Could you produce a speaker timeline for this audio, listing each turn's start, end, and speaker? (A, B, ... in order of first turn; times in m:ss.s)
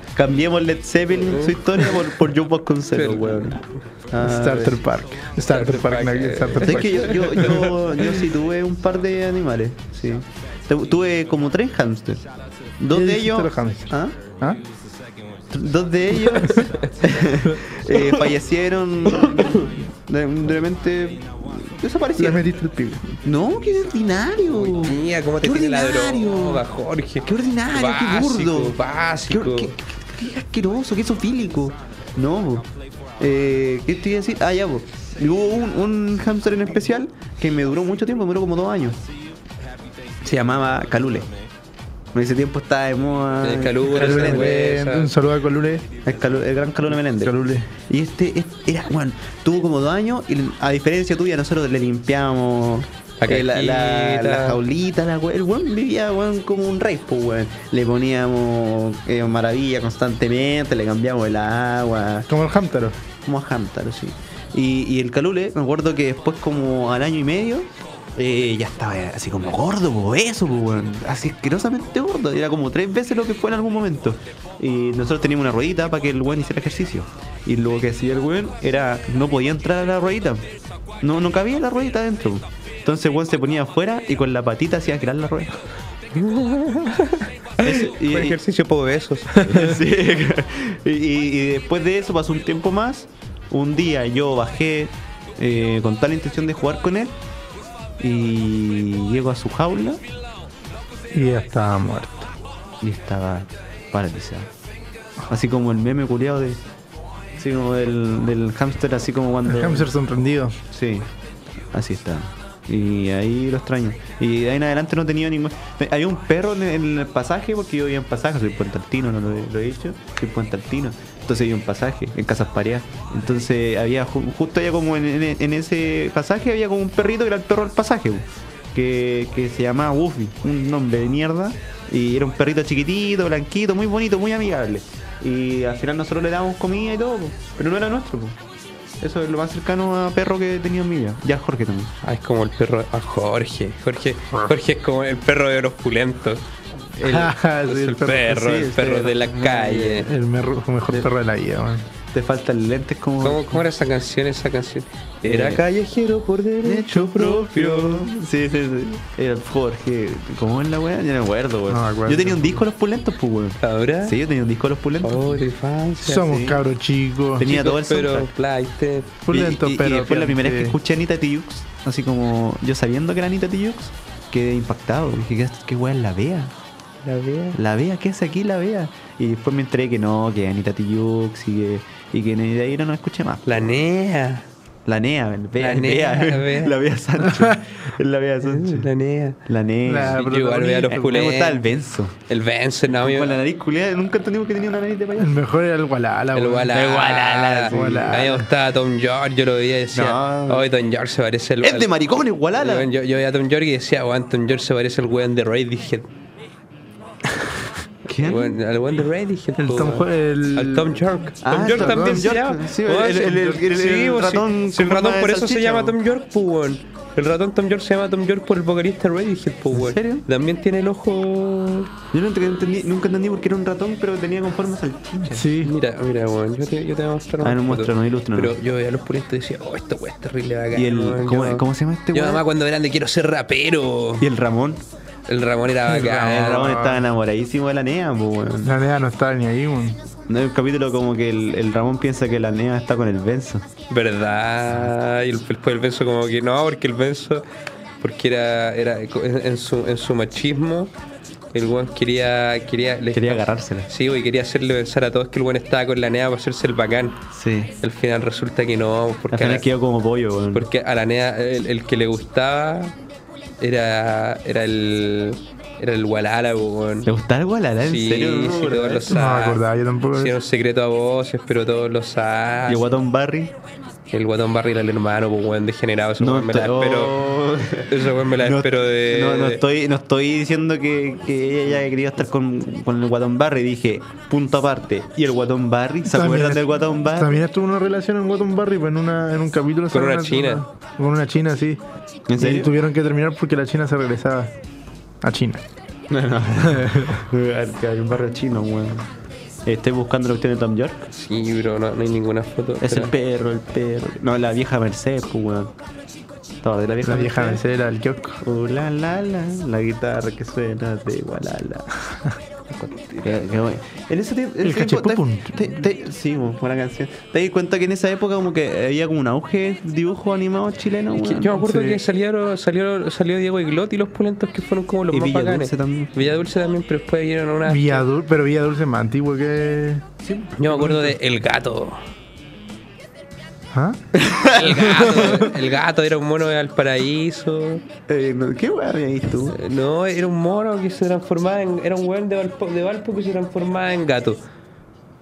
0:00.1-0:03.6 A
0:01.2-0:02.1 B
0:02.9-0:03.7 B
0:04.1-0:04.8 A
0:04.2-0:07.4 C
0:05.5-0:08.3 B
0:06.6-0:12.2 A
0:12.8-0:14.2 A
0:12.9-0:14.6 C
0:15.5-0:22.5 A
0:16.4-0:16.7 B
0:22.2-0:23.1 C
0:23.2-0:26.6 A
0:24.5-0:29.7 B
0:27.2-0:39.0 A
0:40.2-0:41.3 A
0:42.1-0:44.6 A
0:43.4-0:45.1 B
0:43.9-0:45.8 C
0:46.0-1:02.3 A
0:47.1-0:47.7 C
0:53.2-0:54.6 B
1:02.3-1:03.0 C
1:03.2-1:20.4 A
1:21.0-1:25.5 A
1:26.1-1:29.7 B
1:27.6-1:28.4 A
1:29.4-1:37.2 A
1:38.0-1:40.0 A
1:41.1-1:42.3 C
1:42.8-1:44.5 A
1:45.3-1:46.6 A
1:47.4-1:49.9 A
1:49.4-1:50.6 C
1:50.7-1:51.1 A
1:51.7-2:18.4 A
2:19.0-2:21.9 A
2:22.0-2:26.4 B
2:27.0-2:30.1 B
2:27.0-2:29.0 C
2:28.5-2:30.1 A
2:29.9-2:31.9 C
2:32.1-2:33.6 A
2:33.2-2:38.1 B
2:35.2-2:35.6 A
2:36.6-2:45.4 A
2:41.7-2:42.6 C
2:43.6-2:44.2 B
2:45.0-2:46.4 B
2:46.0-2:47.5 C
2:46.1-2:46.6 A
2:47.4-2:48.3 A
2:47.4-2:49.2 B
2:49.2-2:50.8 C
2:49.3-2:56.5 A
2:57.0-2:57.6 B
2:57.5-3:03.7 A
3:03.4-3:04.5 B
3:04.8-3:08.9 A
3:05.6-3:06.8 B
3:08.4-3:09.4 B
3:09.4-3:10.3 A
3:09.8-3:11.2 C
3:10.1-3:11.7 B
3:10.9-3:12.1 A
3:12.3-3:13.4 B
3:12.9-3:15.4 A
3:15.2-3:16.8 C
3:16.3-3:21.9 B
3:16.7-3:18.4 A
3:17.7-3:18.5 C
3:19.9-3:20.7 A
3:21.6-3:22.9 A
3:22.6-3:26.1 B
3:28.0-3:28.6 A
3:28.2-3:41.9 B
3:29.6-3:31.0 C
3:31.4-3:36.0 A
3:31.6-3:32.3 C
3:39.7-3:40.2 A
3:42.1-3:45.5 A
3:45.3-3:45.7 C
3:45.6-3:54.2 B
3:47.4-3:48.6 A
3:50.7-3:52.4 A
3:54.2-3:54.8 A
3:55.3-3:56.7 B
3:55.9-3:57.0 C
3:56.2-3:58.8 A
3:58.6-4:00.0 C
4:00.3-4:03.6 A
4:03.9-4:07.4 B
4:08.0-4:10.9 B
4:11.5-4:17.2 B
4:13.1-4:13.9 A
4:17.3-4:17.7 A
4:17.8-4:19.7 B
4:19.3-4:20.7 A
4:20.5-4:22.9 B
4:23.6-4:27.1 B
4:27.0-4:29.2 A
4:27.8-4:29.6 B
4:29.1-4:30.4 C
4:30.1-4:32.9 B
4:32.7-4:33.5 A
4:34.1-4:37.2 B
4:36.2-4:47.4 A
4:37.9-4:39.6 B
4:46.1-4:51.8 C
4:49.9-4:50.6 B
4:52.3-4:52.7 A
4:52.4-4:54.5 C
4:55.2-4:55.6 C
4:56.1-4:59.1 A
4:56.8-4:57.1 C
4:59.6-5:01.1 A
5:01.1-5:03.1 B
5:02.8-5:05.7 A
5:06.6-5:07.6 A
5:07.0-5:08.4 C
5:08.4-5:11.9 A
5:12.7-5:21.6 A
5:14.6-5:15.8 C
5:21.2-5:28.0 B
5:21.6-5:22.0 C
5:25.1-5:26.2 A
5:27.6-5:30.0 C
5:30.2-5:31.1 A
5:30.6-5:32.0 B
5:33.7-5:34.0 C
5:34.1-5:35.2 A
5:34.5-5:37.8 B
5:35.0-5:35.4 C
5:38.1-5:39.6 A
5:39.5-5:44.4 B